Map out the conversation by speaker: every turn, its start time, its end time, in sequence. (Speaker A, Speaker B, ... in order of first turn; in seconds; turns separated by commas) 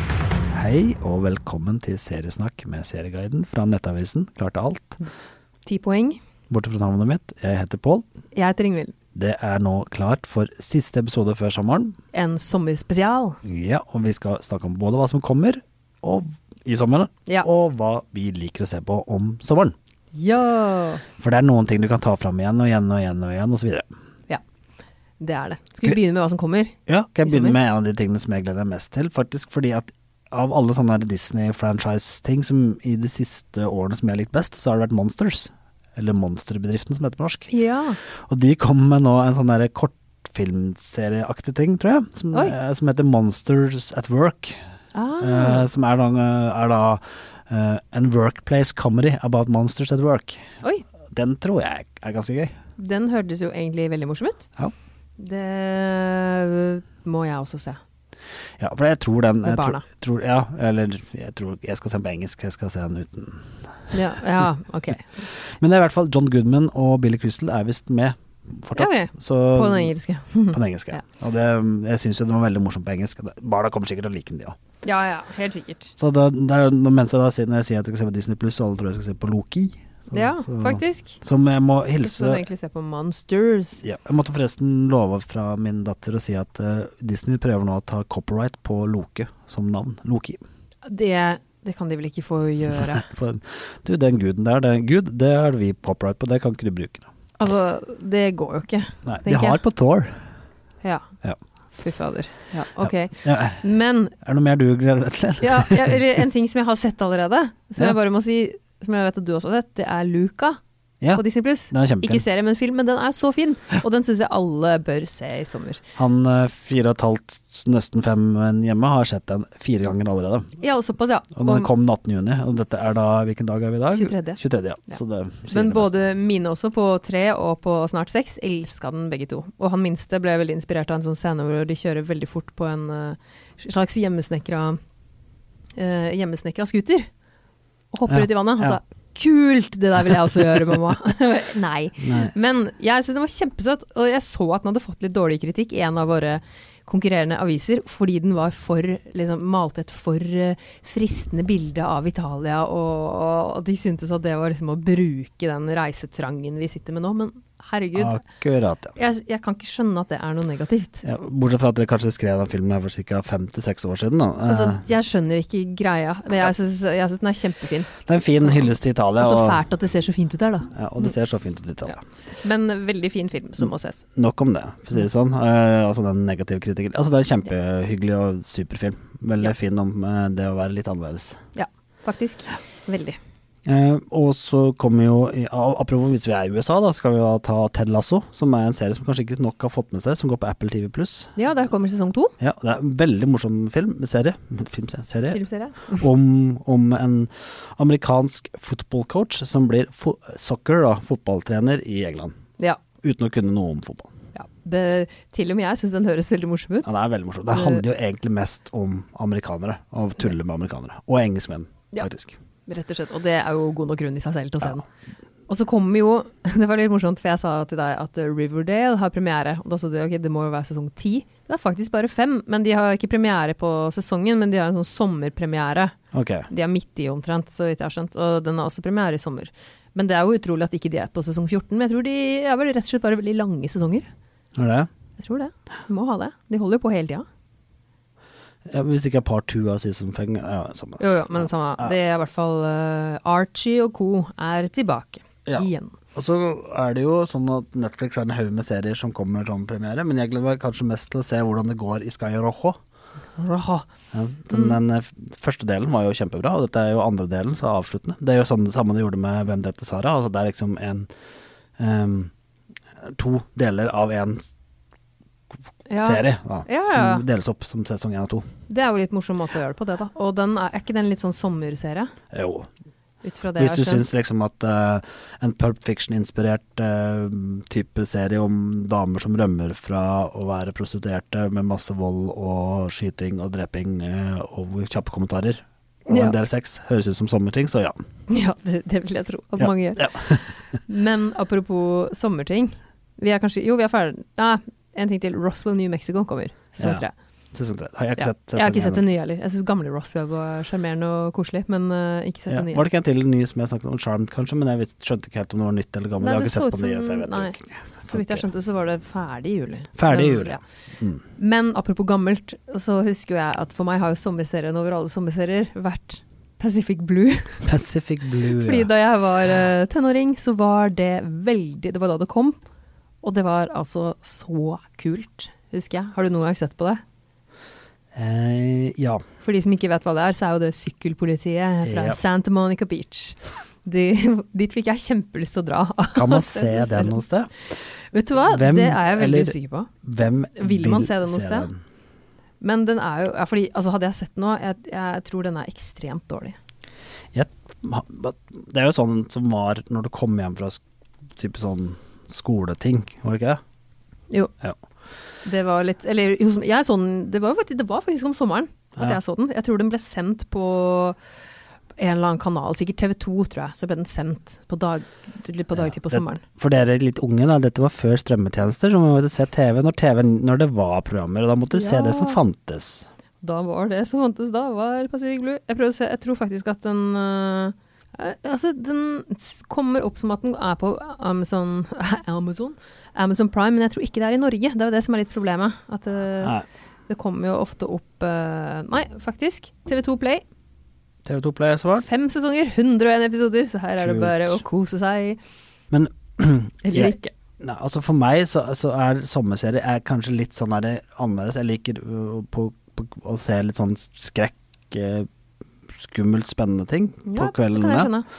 Speaker A: 0.5-5.0, Speaker B: 5.7-6.2, Speaker A: 6.5-8.1, Speaker B: 8.3-8.9, Speaker A: 9.2-12.0, Speaker B: 12.1-13.4, Speaker A: 13.4-19.8, Speaker B: 20.1-21.0, Speaker A: 21.2-23.9, Speaker B: 25.2-27.6, Speaker A: 26.9-37.5, Speaker B: 37.5-38.0, Speaker A: 38.0-44.6, Speaker B: 44.9-45.7, Speaker A: 45.2-50.4, Speaker A: 51.1-52.5, Speaker B: 52.8-54.5, Speaker B: 55.2-57.8, Speaker A: 58.6-63.9, Speaker B: 59.4-59.9, Speaker B: 63.9-65.2, Speaker A: 65.6-69.9, Speaker B: 68.8-71.0, Speaker A: 70.5-74.6, Speaker B: 74.8-75.9, Speaker A: 76.0-82.5, Speaker B: 80.1-81.2, Speaker B: 82.0-83.8, Speaker A: 83.8-90.4, Speaker B: 90.8-93.1, Speaker A: 93.0-97.1, Speaker B: 97.4-99.6, Speaker A: 99.0-100.2, Speaker B: 100.8-101.1, Speaker B: 101.7-104.2, Speaker A: 102.8-103.7, Speaker A: 104.2-106.0, Speaker B: 105.4-110.6, Speaker A: 111.0-112.2, Speaker B: 111.1-115.8, Speaker A: 116.0-120.5, Speaker B: 120.6-121.7, Speaker A: 121.4-126.0, Speaker B: 123.9-134.8, Speaker B: 135.8-137.1, Speaker B: 137.9-158.2, Speaker A: 138.1-138.8, Speaker A: 142.0-142.3, Speaker A: 158.0-159.0, Speaker B: 159.0-161.1, Speaker A: 161.1-164.8, Speaker B: 164.4-171.1, Speaker A: 168.1-169.6, Speaker A: 170.7-172.0, Speaker B: 171.9-174.0, Speaker A: 174.2-181.4, Speaker B: 181.6-183.2, Speaker A: 183.7-191.3, Speaker B: 191.4-192.3, Speaker A: 192.4-202.4, Speaker B: 195.3-196.0, Speaker A: 203.0-204.1, Speaker B: 204.3-206.9, Speaker A: 206.8-212.4, Speaker B: 207.5-207.8, Speaker B: 212.7-214.8, Speaker B: 215.5-225.9, Speaker A: 226.1-226.5, Speaker B: 226.5-234.1, Speaker A: 234.6-234.9, Speaker B: 235.2-237.3, Speaker A: 238.7-241.9, Speaker B: 241.0-246.0, Speaker A: 245.5-252.8, Speaker B: 253.4-253.9, Speaker A: 254.1-261.1, Speaker A: 261.8-262.3, Speaker A: 263.0-264.5, Speaker B: 265.9-267.2, Speaker A: 266.0-268.4, Speaker B: 268.7-272.1, Speaker A: 272.3-272.7, Speaker B: 273.2-274.1, Speaker A: 273.6-288.0, Speaker B: 286.1-286.4, Speaker B: 288.3-297.1, Speaker A: 289.6-290.4, Speaker A: 296.8-299.0, Speaker B: 298.2-302.9, Speaker A: 302.5-308.5, Speaker B: 306.2-310.6, Speaker A: 310.0-311.2, Speaker B: 311.4-317.7, Speaker A: 317.6-318.9, Speaker B: 318.5-322.6, Speaker B: 323.2-327.0, Speaker A: 328.1-329.2, Speaker B: 329.4-337.2, Speaker A: 331.8-332.2, Speaker A: 336.1-337.5, Speaker B: 338.1-339.9, Speaker A: 338.5-341.8, Speaker B: 340.6-341.7, Speaker B: 342.6-346.6, Speaker A: 347.3-350.8, Speaker A: 351.4-353.6, Speaker B: 355.4-361.2, Speaker B: 362.0-366.4, Speaker A: 365.8-373.1, Speaker B: 371.7-372.4, Speaker B: 373.4-390.4, Speaker A: 391.2-392.1, Speaker B: 392.0-395.4, Speaker A: 394.0-394.6, Speaker A: 395.9-405.3, Speaker B: 396.8-397.3, Speaker A: 406.0-408.1, Speaker B: 407.3-408.3